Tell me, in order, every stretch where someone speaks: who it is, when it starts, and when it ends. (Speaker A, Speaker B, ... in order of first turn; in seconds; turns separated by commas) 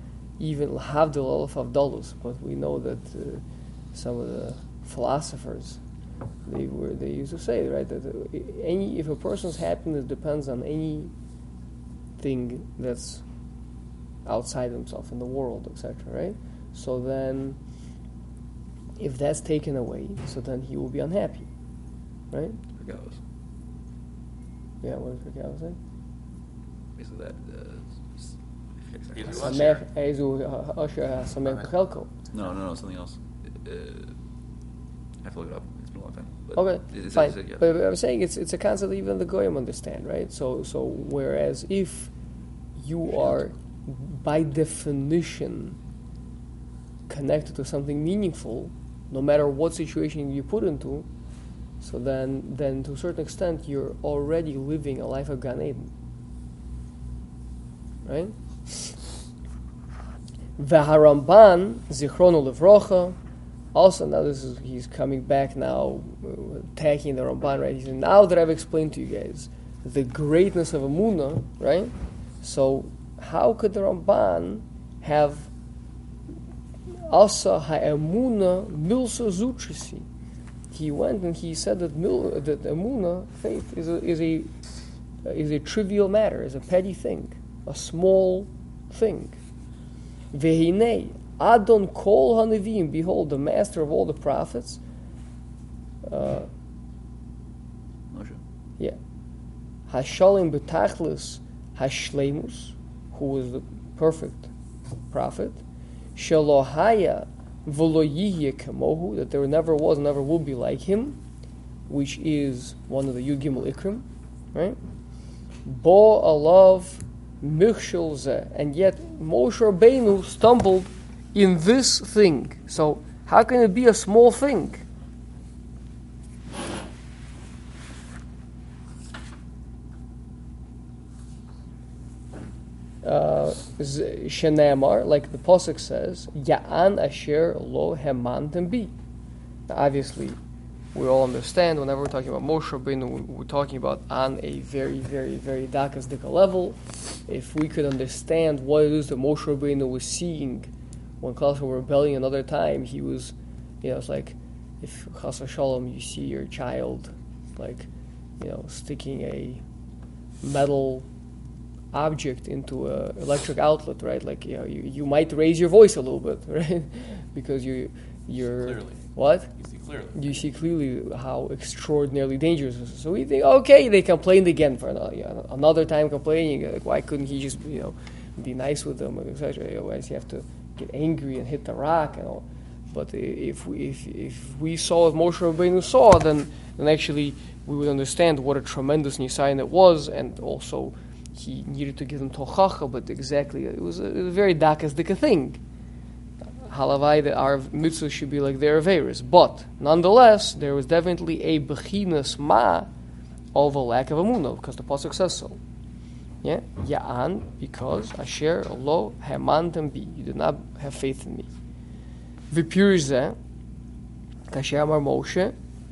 Speaker A: 0.4-5.8, Speaker A: 6.5-11.1, Speaker A: 12.2-13.2, Speaker A: 14.2-17.6, Speaker A: 19.0-21.5, Speaker A: 22.3-23.0, Speaker B: 22.8-23.2, Speaker A: 24.8-25.8, Speaker B: 26.9-29.6, Speaker C: 29.1-29.8, Speaker A: 29.3-32.1, Speaker B: 32.3-34.2, Speaker B: 35.2-37.7, Speaker A: 36.5-42.1, Speaker A: 42.8-45.8, Speaker A: 47.1-51.0, Speaker A: 51.8-55.9, Speaker A: 58.0-59.0, Speaker A: 60.6-63.1, Speaker A: 63.7-75.5, Speaker A: 77.0-80.0, Speaker A: 80.7-84.5, Speaker A: 85.2-89.4, Speaker A: 90.3-94.8, Speaker A: 96.0-96.5, Speaker B: 98.1-98.4, Speaker A: 99.9-104.5, Speaker A: 105.1-105.6, Speaker A: 106.2-111.2, Speaker A: 111.9-114.8, Speaker A: 115.6-124.8, Speaker A: 133.0-138.9, Speaker A: 139.7-140.4, Speaker A: 140.9-150.7, Speaker A: 151.2-157.9, Speaker A: 158.4-159.6, Speaker A: 160.4-161.1, Speaker A: 161.9-169.5, Speaker C: 168.6-169.0, Speaker C: 169.6-170.4, Speaker A: 170.2-195.6, Speaker A: 196.6-202.9, Speaker A: 203.5-205.6, Speaker A: 206.4-211.5, Speaker A: 212.5-213.4, Speaker A: 214.5-215.5